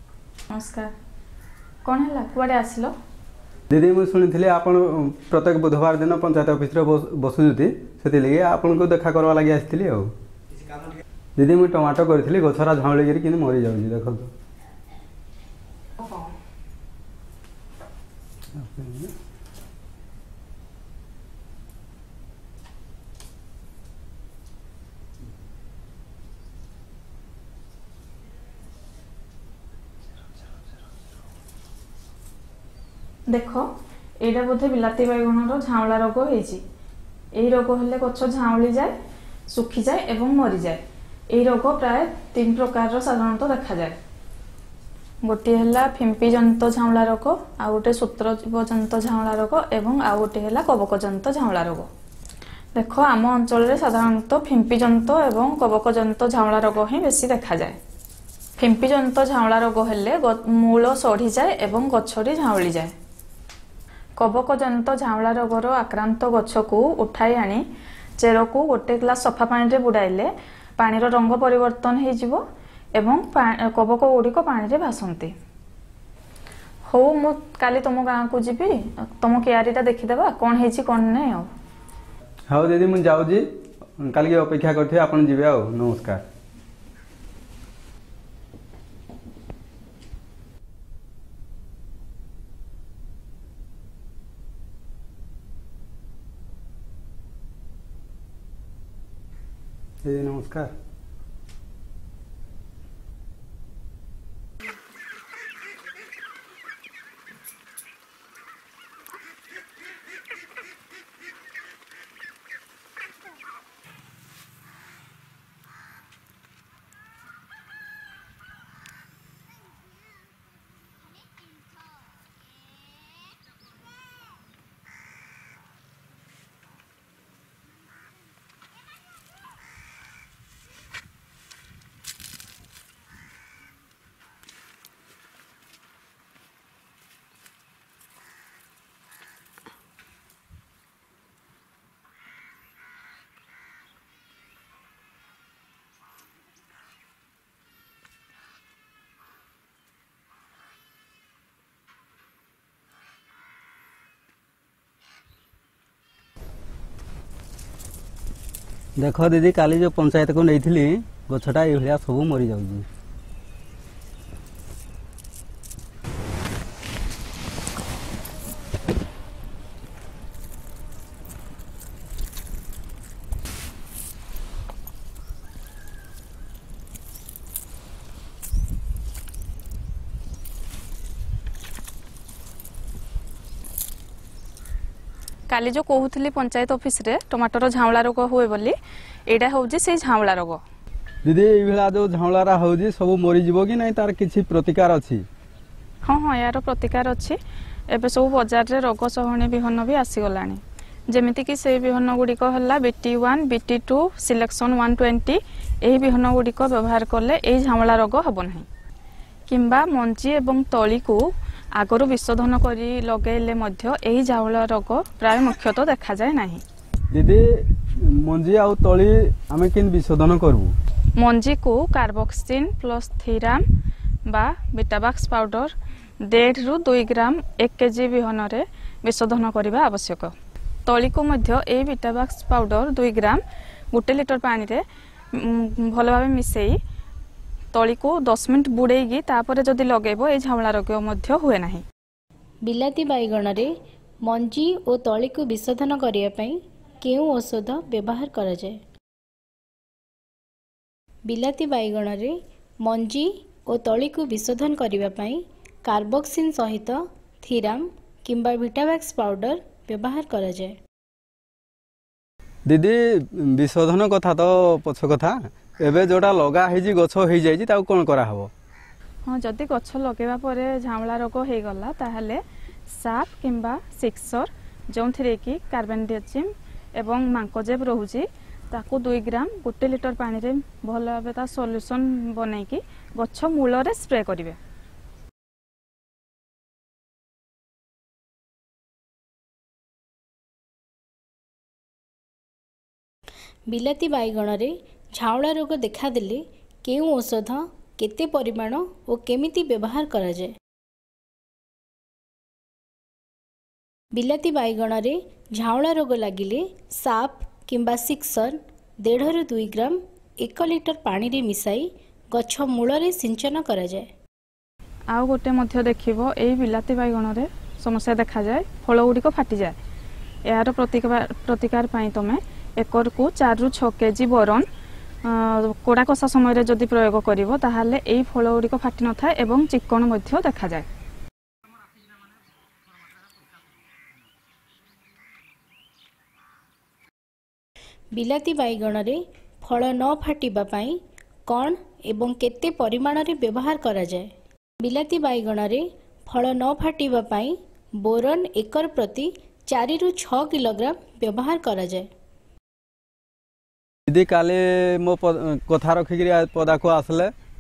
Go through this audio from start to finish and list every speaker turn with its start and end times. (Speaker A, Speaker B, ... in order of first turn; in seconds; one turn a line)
Speaker A: 0.5-0.9
Speaker A: 1.8-2.9
Speaker B: 3.7-10.1
Speaker B: 11.4-14.3
Speaker B: 18.5-19.1
Speaker A: 33.3-33.7
Speaker A: 34.2-36.6
Speaker A: 37.3-39.0
Speaker A: 39.5-44.0
Speaker A: 45.2-51.9
Speaker A: 52.7-57.8
Speaker A: 58.6-62.9
Speaker A: 64.2-67.6
Speaker A: 68.2-72.4
Speaker A: 73.0-75.3
Speaker A: 76.9-81.5
Speaker B: 82.5-83.4
Speaker B: 84.0-86.2
Speaker B: 100.0-100.7
Speaker B: 159.0-162.9
Speaker A: 185.5-190.6
Speaker B: 191.2-195.2
Speaker A: 196.0-197.4
Speaker A: 197.9-208.7
Speaker A: 209.5-211.2
Speaker A: 211.8-216.6
Speaker B: 217.1-220.7
Speaker A: 221.2-223.6
Speaker A: 224.2-230.3
Speaker A: 230.8-233.4
Speaker A: 233.9-234.8
Speaker A: 235.4-236.8
Speaker A: 237.7-241.8
Speaker C: 242.6-243.7
Speaker C: 244.2-248.8
Speaker C: 251.3-260.8
Speaker B: 262.7-268.5
Speaker A: 269.2-284.6
Speaker C: 293.7-300.5
Speaker C: 304.1-314.1
Speaker A: 315.1-319.8
Speaker A: 320.4-324.7
Speaker A: 325.2-330.9
Speaker C: 338.1-352.1
Speaker B: 354.1-357.3